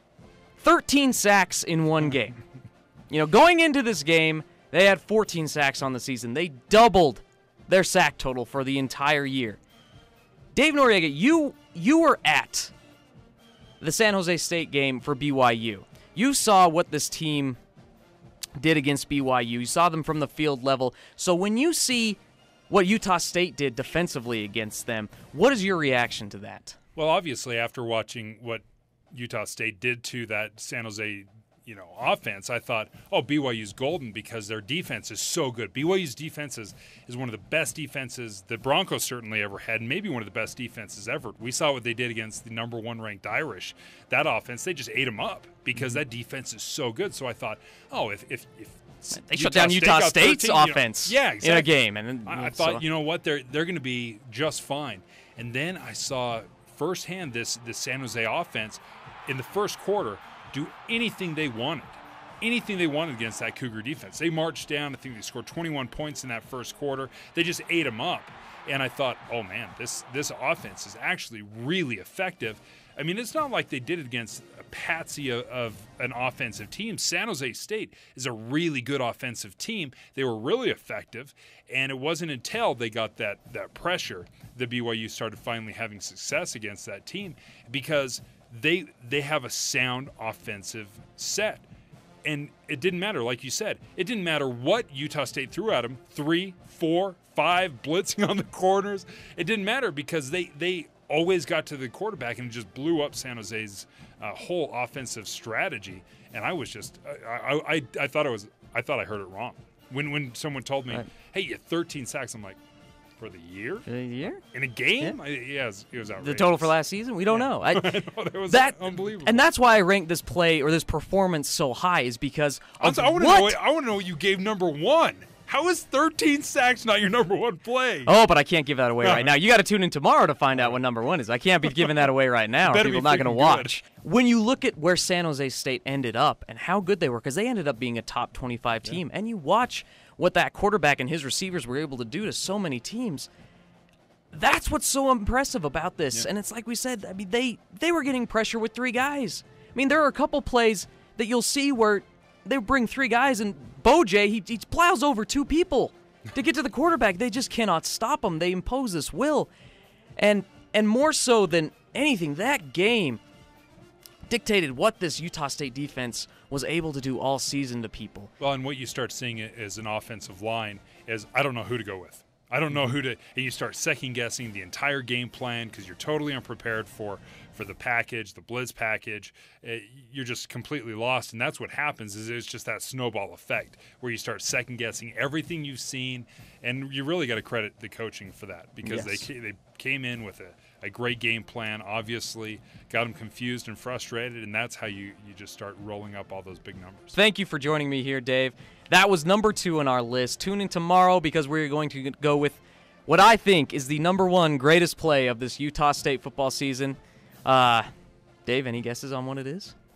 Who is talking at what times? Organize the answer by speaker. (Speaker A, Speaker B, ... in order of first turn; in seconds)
Speaker A: 0.6-2.4, 3.1-9.6, 10.5-12.7, 13.8-17.6, 18.6-26.8, 49.1-52.8, 113.9-114.4, 116.2-118.0, 118.5-123.6, 128.1-143.3, 144.3-159.5, 160.2-163.2, 164.3-168.3, 188.8-189.3, 197.1-207.9, 208.5-209.8
Speaker B: 27.0-91.7, 92.2-112.6, 113.2-113.9, 114.4-116.8, 117.3-119.5, 122.8-128.1, 129.0-129.3, 132.6-133.8, 168.4-197.2